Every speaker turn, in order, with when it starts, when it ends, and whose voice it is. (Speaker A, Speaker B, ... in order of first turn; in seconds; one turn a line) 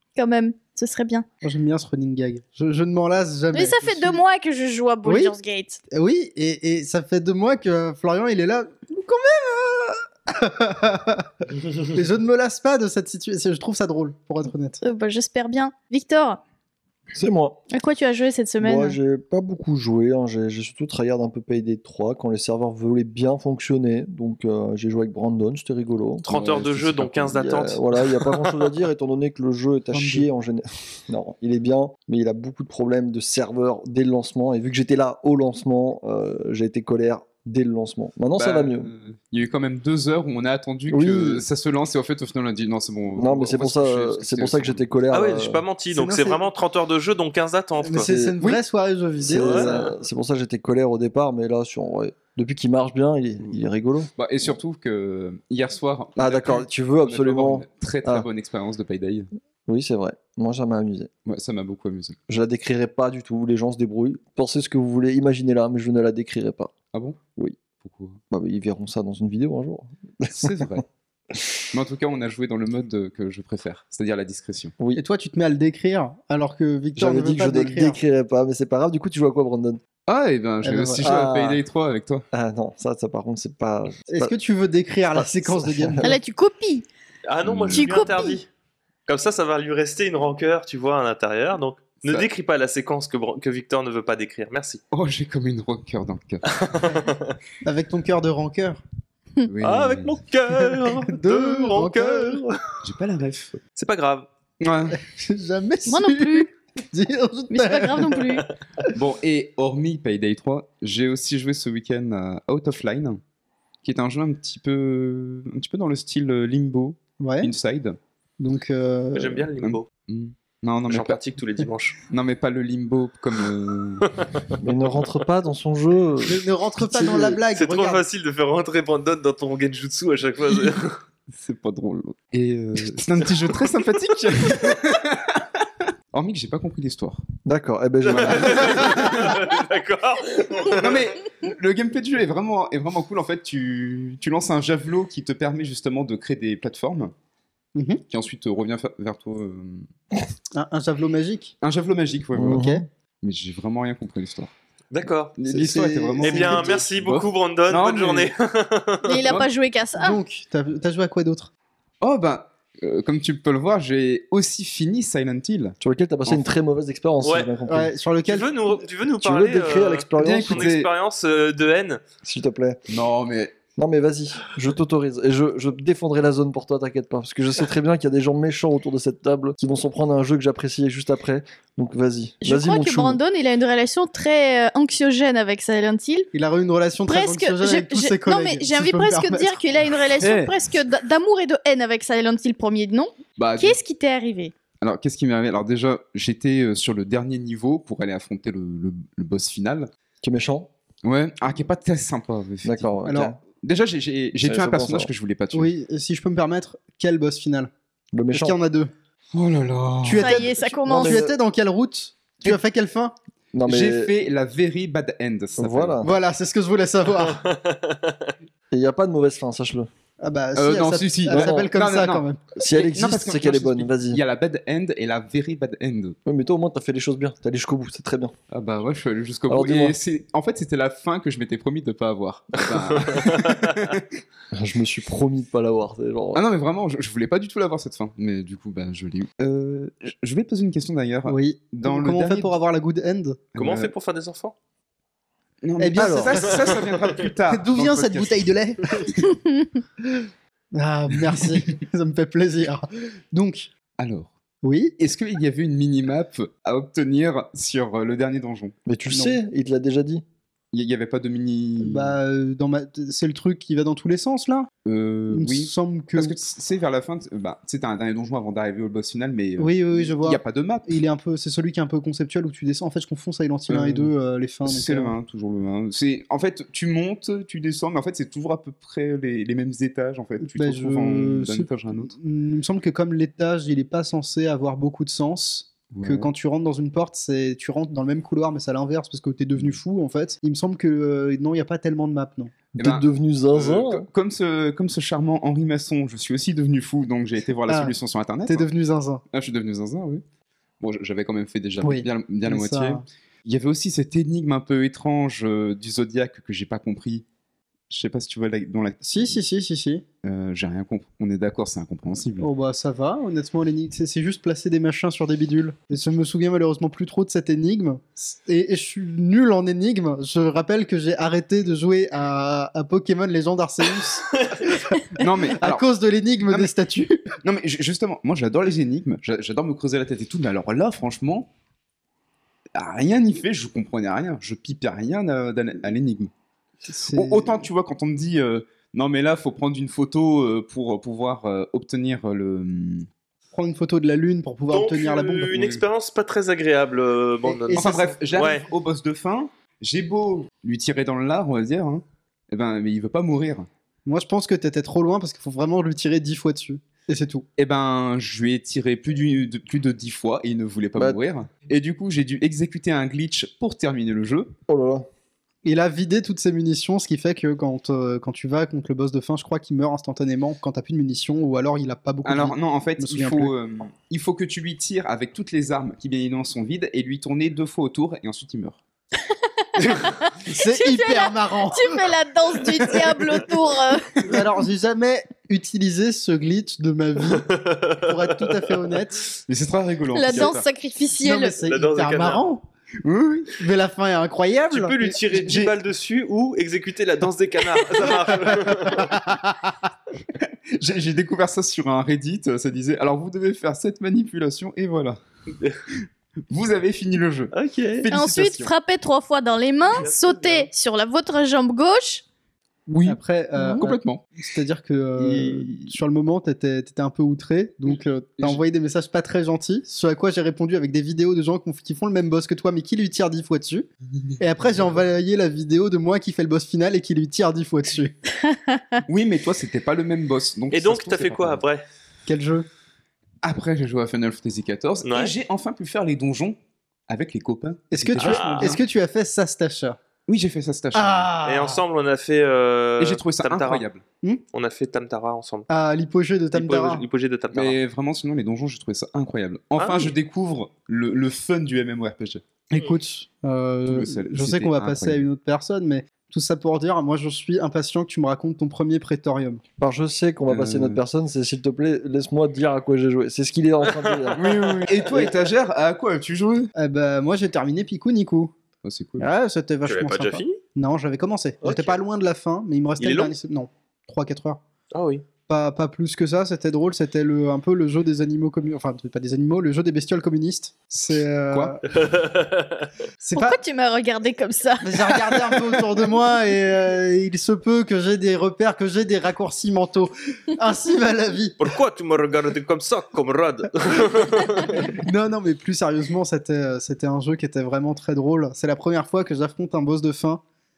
Speaker A: 0.1-1.2
Speaker B: 1.4-4.2
Speaker A: 3.5-5.8
Speaker B: 5.0-5.3
Speaker B: 5.9-14.8
Speaker A: 14.8-16.4
Speaker C: 17.1-17.6
Speaker A: 17.7-19.0
Speaker C: 18.6-38.9
Speaker D: 26.2-28.7
Speaker E: 26.4-27.1
Speaker B: 29.9-30.2
Speaker E: 38.4-44.8
Speaker C: 40.9-41.4
Speaker C: 43.1-45.6
Speaker D: 45.1-48.1
Speaker B: 45.9-46.4
Speaker B: 47.8-49.8
Speaker C: 48.0-48.4
Speaker C: 49.2-54.1
Speaker D: 49.3-49.9
Speaker E: 54.1-59.3
Speaker C: 56.2-58.2
Speaker C: 59.7-61.1
Speaker E: 61.2-62.2
Speaker C: 62.3-66.7
Speaker E: 66.9-68.2
Speaker C: 68.3-70.7
Speaker E: 70.2-70.8
Speaker E: 71.7-74.8
Speaker B: 74.9-78.0
Speaker C: 77.0-79.8
Speaker E: 80.1-82.3
Speaker B: 80.6-81.3
Speaker C: 81.0-81.6
Speaker C: 82.3-84.3
Speaker B: 84.1-86.2
Speaker C: 85.1-86.2
Speaker A: 86.0-86.8
Speaker D: 87.2-88.5
Speaker E: 87.4-87.9
Speaker A: 87.7-88.3
Speaker B: 88.0-88.3
Speaker D: 89.1-94.8
Speaker E: 94.9-96.6
Speaker D: 96.5-97.3
Speaker B: 97.6-98.8
Speaker E: 99.5-100.2
Speaker D: 99.6-102.8
Speaker B: 101.0-102.4
Speaker E: 102.8-103.6
Speaker D: 103.7-104.3
Speaker E: 104.6-105.0
Speaker B: 104.9-108.2
Speaker A: 105.9-106.5
Speaker A: 107.5-108.5
Speaker E: 108.9-113.2
Speaker E: 113.8-118.0
Speaker B: 117.2-117.5
Speaker B: 118.4-119.5
Speaker D: 119.1-119.9
Speaker E: 119.6-121.2
Speaker D: 120.9-122.0
Speaker E: 122.1-124.1
Speaker D: 124.0-124.5
Speaker C: 124.6-126.4
Speaker B: 126.2-128.1
Speaker C: 126.9-127.4
Speaker D: 127.5-131.0
Speaker E: 131.3-137.2
Speaker C: 137.4-138.8
Speaker E: 138.0-139.5
Speaker D: 138.0-141.1
Speaker E: 140.7-147.1
Speaker B: 147.7-148.0
Speaker E: 148.1-149.9
Speaker B: 150.5-151.5
Speaker E: 151.6-152.7
Speaker C: 152.3-152.8
Speaker B: 152.4-152.8
Speaker E: 153.2-154.5
Speaker D: 154.9-155.3
Speaker E: 155.4-158.3
Speaker B: 155.5-156.8
Speaker D: 156.2-159.3
Speaker A: 159.0-160.2
Speaker E: 159.2-159.5
Speaker B: 159.9-161.5
Speaker E: 162.0-166.5
Speaker C: 165.8-167.9
Speaker D: 167.2-167.5
Speaker B: 167.7-168.6
Speaker D: 168.2-172.0
Speaker C: 169.2-170.7
Speaker E: 170.2-170.9
Speaker C: 172.2-172.8
Speaker E: 172.9-173.6
Speaker C: 173.8-183.2
Speaker A: 182.4-186.3
Speaker B: 186.3-189.8
Speaker A: 187.1-194.5
Speaker E: 190.2-190.5
Speaker E: 193.4-193.8
Speaker E: 194.8-199.9
Speaker C: 200.2-200.7
Speaker E: 201.0-205.7
Speaker C: 202.6-203.4
Speaker B: 203.0-203.3
Speaker C: 204.4-205.1
Speaker B: 205.5-207.7
Speaker C: 208.1-208.5
Speaker B: 208.3-208.9
Speaker E: 209.3-210.4
Speaker B: 210.0-213.1
Speaker A: 210.2-211.3
Speaker C: 210.9-211.3
Speaker C: 213.5-214.1
Speaker E: 213.6-216.0
Speaker C: 215.6-216.1
Speaker B: 216.0-217.4
Speaker D: 217.2-218.3
Speaker C: 218.7-219.9
Speaker B: 220.2-222.5
Speaker E: 220.6-226.2
Speaker C: 221.3-221.7
Speaker C: 222.6-224.2
Speaker C: 226.2-228.3
Speaker E: 228.5-234.2
Speaker C: 229.5-230.0
Speaker D: 232.7-233.8
Speaker C: 234.5-236.4
Speaker E: 236.3-242.5
Speaker B: 241.2-243.4
Speaker E: 243.5-243.9
Speaker D: 243.6-244.5
Speaker E: 245.6-248.5
Speaker B: 245.8-246.8
Speaker C: 245.9-246.3
Speaker D: 246.5-247.3
Speaker B: 247.5-249.2
Speaker B: 250.1-253.7
Speaker E: 251.2-251.6
Speaker E: 254.0-254.3
Speaker B: 254.6-254.9
Speaker E: 255.0-258.8
Speaker C: 258.9-260.2
Speaker B: 259.1-259.4
Speaker E: 260.7-262.1
Speaker B: 261.8-264.7
Speaker E: 264.8-271.0
Speaker B: 265.3-266.4
Speaker B: 269.6-275.1
Speaker E: 273.7-274.1
Speaker E: 274.6-282.1
Speaker B: 280.4-292.5
Speaker E: 285.9-286.3
Speaker E: 292.8-298.7
Speaker C: 292.8-294.1
Speaker B: 297.7-299.2
Speaker E: 299.3-300.2
Speaker E: 300.8-307.2
Speaker B: 301.8-303.0
Speaker E: 307.9-309.4
Speaker B: 309.0-310.0
Speaker E: 310.2-312.5
Speaker B: 312.4-327.3
Speaker D: 324.3-324.6
Speaker E: 325.2-325.8
Speaker E: 326.4-326.7
Speaker E: 327.4-331.5
Speaker E: 332.7-336.3
Speaker B: 336.8-337.7
Speaker E: 337.1-343.1
Speaker B: 343.5-345.6
Speaker D: 344.7-348.7
Speaker E: 345.5-345.8
Speaker B: 347.4-348.1
Speaker E: 347.7-353.7
Speaker B: 354.1-357.4
Speaker E: 357.6-364.5
Speaker C: 364.7-365.1
Speaker B: 365.6-373.5
Speaker E: 372.2-378.8
Speaker A: 379.3-384.3
Speaker B: 380.4-382.1
Speaker B: 382.7-383.1
Speaker B: 384.2-389.3
Speaker D: 387.2-388.9
Speaker E: 389.4-390.6
Speaker A: 390.1-391.6
Speaker B: 391.2-392.6
Speaker D: 391.6-392.5
Speaker E: 393.0-393.6
Speaker B: 393.5-395.2
Speaker D: 394.7-399.1
Speaker E: 395.3-395.7
Speaker B: 398.4-399.7
Speaker E: 400.4-405.2
Speaker E: 406.5-408.7
Speaker D: 407.5-408.1
Speaker A: 408.1-412.2
Speaker D: 409.9-410.7
Speaker E: 412.9-413.2
Speaker B: 413.0-423.9
Speaker A: 413.6-413.8
Speaker E: 413.7-414.2
Speaker E: 415.2-415.9
Speaker E: 424.2-424.9
Speaker B: 424.4-428.1
Speaker A: 428.5-429.0
Speaker E: 429.1-431.6
Speaker D: 430.7-431.8
Speaker B: 432.3-432.6
Speaker E: 433.4-438.8
Speaker D: 435.0-435.3
Speaker B: 437.9-440.0
Speaker D: 438.2-438.8
Speaker E: 440.3-441.3
Speaker B: 440.9-441.8
Speaker D: 441.4-443.9
Speaker E: 443.0-444.0
Speaker D: 444.5-445.7
Speaker B: 445.7-447.0
Speaker D: 446.5-447.8
Speaker E: 447.5-452.4
Speaker D: 449.8-450.1
Speaker B: 452.7-459.6
Speaker E: 453.9-455.2
Speaker C: 459.8-464.6
Speaker E: 460.5-461.0
Speaker D: 463.8-465.3
Speaker E: 464.3-466.7
Speaker B: 466.7-468.5
Speaker E: 468.8-469.3
Speaker B: 469.2-474.6
Speaker D: 469.8-470.6
Speaker D: 473.0-473.3
Speaker D: 474.9-475.2
Speaker B: 475.5-481.8
Speaker E: 481.5-481.8
Speaker D: 481.9-482.9
Speaker B: 483.2-483.6
Speaker A: 483.3-485.6
Speaker B: 484.8-491.6
Speaker D: 491.6-495.0
Speaker B: 494.7-500.4